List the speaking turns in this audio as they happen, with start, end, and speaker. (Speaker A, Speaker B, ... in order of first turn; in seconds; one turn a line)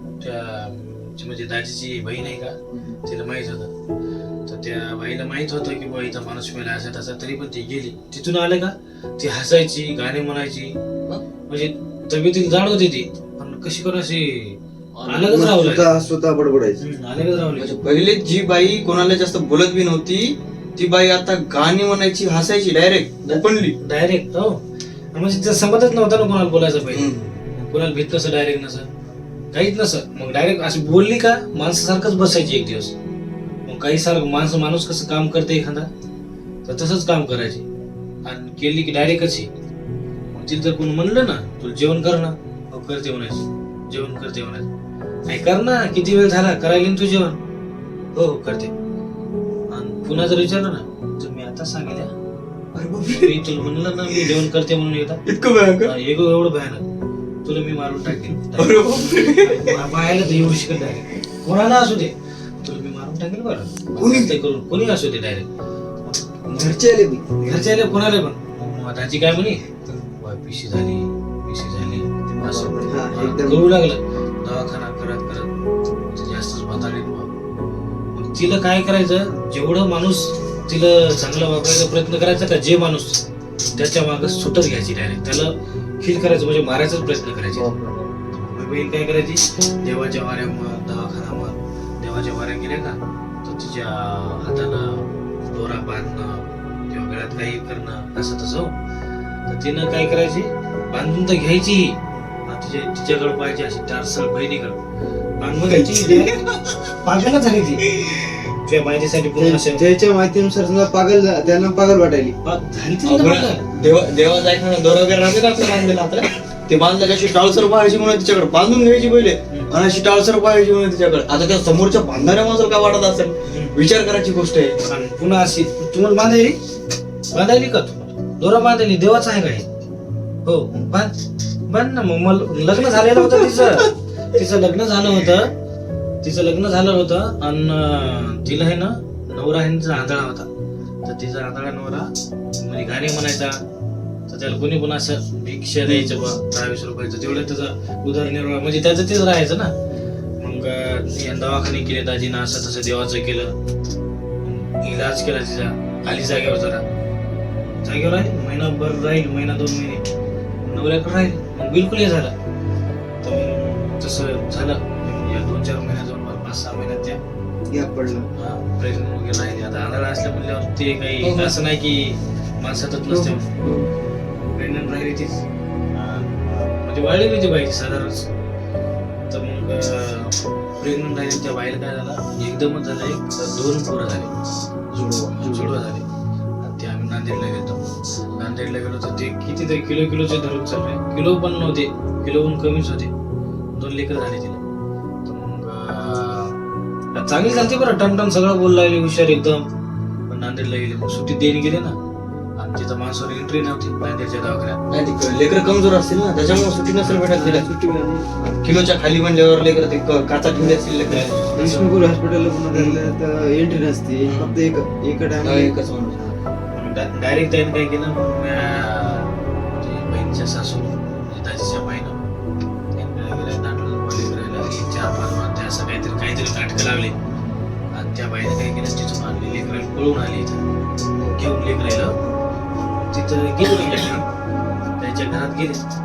Speaker A: 0.2-3.7
Speaker B: 2.7-3.0
Speaker A: 4.5-10.8
Speaker A: 11.5-16.1
Speaker C: 15.1-16.8
Speaker A: 16.8-17.7
Speaker B: 17.6-23.8
Speaker A: 23.2-24.6
Speaker A: 25.1-28.9
Speaker B: 26.9-27.4
Speaker A: 29.5-33.0
Speaker A: 33.7-35.9
Speaker A: 36.6-37.7
Speaker A: 38.2-39.5
Speaker A: 40.3-44.7
Speaker A: 45.3-47.4
Speaker A: 48.1-48.7
Speaker A: 49.7-52.1
Speaker B: 52.7-53.5
Speaker A: 53.1-55.2
Speaker B: 54.1-54.4
Speaker B: 55.2-55.9
Speaker A: 55.9-56.8
Speaker A: 57.5-65.5
Speaker B: 58.5-59.8
Speaker B: 64.0-64.4
Speaker A: 66.1-66.8
Speaker C: 66.5-67.4
Speaker A: 67.4-69.7
Speaker A: 70.2-75.5
Speaker B: 72.1-73.5
Speaker C: 72.9-73.7
Speaker A: 76.1-77.3
Speaker A: 78.1-83.2
Speaker A: 83.7-87.7
Speaker C: 87.6-88.1
Speaker A: 88.3-98.8
Speaker A: 99.5-104.8
Speaker A: 105.4-106.3
Speaker B: 105.6-106.9
Speaker A: 107.0-107.9
Speaker A: 108.5-109.8
Speaker C: 109.4-112.4
Speaker A: 112.4-113.9
Speaker B: 113.0-124.8
Speaker A: 123.5-123.8
Speaker A: 124.8-126.6
Speaker A: 127.3-129.7
Speaker A: 130.4-135.5
Speaker B: 132.8-133.9
Speaker A: 136.2-140.5
Speaker A: 141.1-143.6
Speaker A: 144.3-149.7
Speaker B: 145.8-146.3
Speaker A: 150.4-153.5
Speaker A: 154.4-156.8
Speaker A: 157.8-160.0
Speaker A: 160.7-162.3
Speaker A: 163.2-167.2
Speaker C: 167.7-168.3
Speaker A: 168.4-173.5
Speaker B: 171.2-171.6
Speaker C: 173.1-173.9
Speaker A: 174.5-175.4
Speaker A: 175.9-178.3
Speaker A: 179.3-184.3
Speaker A: 184.9-186.1
Speaker B: 184.9-185.7
Speaker A: 186.6-193.1
Speaker A: 193.7-194.6
Speaker A: 195.2-196.6
Speaker A: 197.1-199.7
Speaker A: 200.3-202.0
Speaker A: 202.6-204.8
Speaker B: 204.9-207.7
Speaker A: 206.6-207.1
Speaker C: 207.2-208.5
Speaker B: 208.6-211.4
Speaker A: 211.1-212.0
Speaker C: 211.5-215.7
Speaker B: 212.7-213.0
Speaker B: 214.3-214.6
Speaker B: 215.4-216.4
Speaker A: 216.7-222.2
Speaker A: 222.9-227.2
Speaker B: 227.3-227.6
Speaker A: 227.9-230.6
Speaker A: 231.3-232.2
Speaker A: 232.8-234.2
Speaker A: 235.0-235.8